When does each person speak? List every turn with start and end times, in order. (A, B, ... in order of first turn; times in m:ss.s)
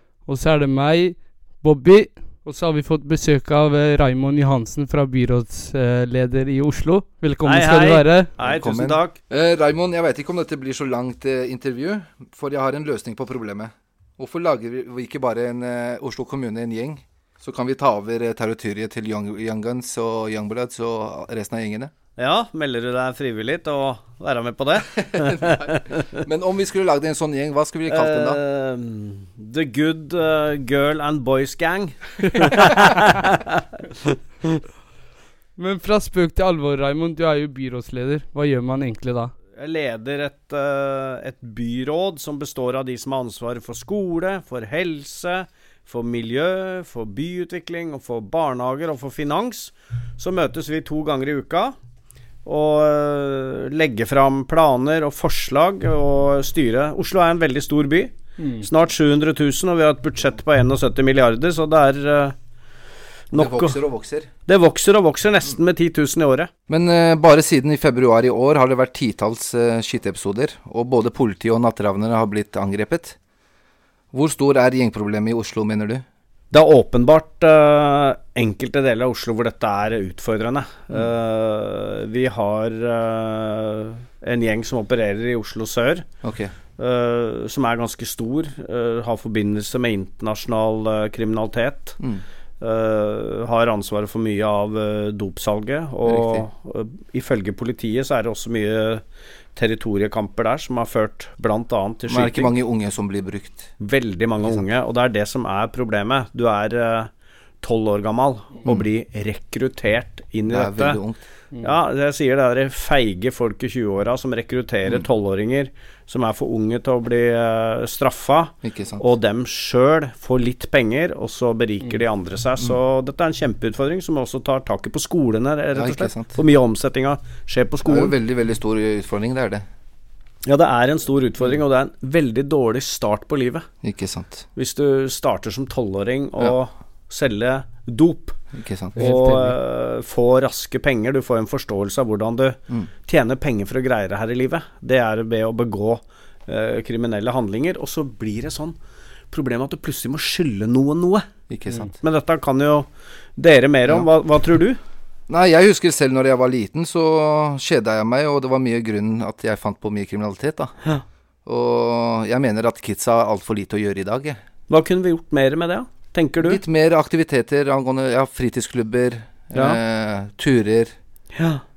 0:00.2-0:08.3 A
0:07.4-0:09.2 B
0:08.4-0:21.9 C
0:22.2-0:26.2 B
0:25.1-0:28.4 C
0:27.9-0:34.2 B
0:35.6-0:39.3 A
0:39.6-0:51.7 B
0:52.4-1:02.3 B
0:58.4-0:58.7 A
1:03.3-1:03.8 B
1:03.3-1:04.3 C
1:04.5-1:06.5 B
1:06.7-1:13.2 C
1:14.1-1:16.0 C
1:16.5-1:26.0 B
1:26.2-1:26.5 C
1:26.8-1:32.0 B
1:32.6-1:39.0 B
1:36.0-1:36.5 C
1:39.6-1:42.5 B
1:42.1-1:43.7 C
1:43.8-1:47.1 B
1:44.4-1:44.7 C
1:47.6-1:51.0 B
1:50.5-1:51.2 C
1:51.6-2:08.1 B
1:58.6-1:59.0 C
2:05.7-2:06.4 C
2:07.8-2:09.6 C
2:10.4-2:13.7 B
2:13.8-2:14.5 C
2:14.6-2:18.4 B
2:18.5-2:19.1 C
2:19.0-2:28.7 B
2:19.0-2:19.6 A
2:29.3-2:31.2 B
2:31.5-2:31.9 C
2:32.0-2:32.8 B
2:33.4-2:34.8 B
2:35.3-2:40.7 C
2:41.4-2:44.4 C
2:44.7-2:46.6 B
2:46.4-2:50.9 C
2:49.5-2:49.8 B
2:51.3-2:51.6 B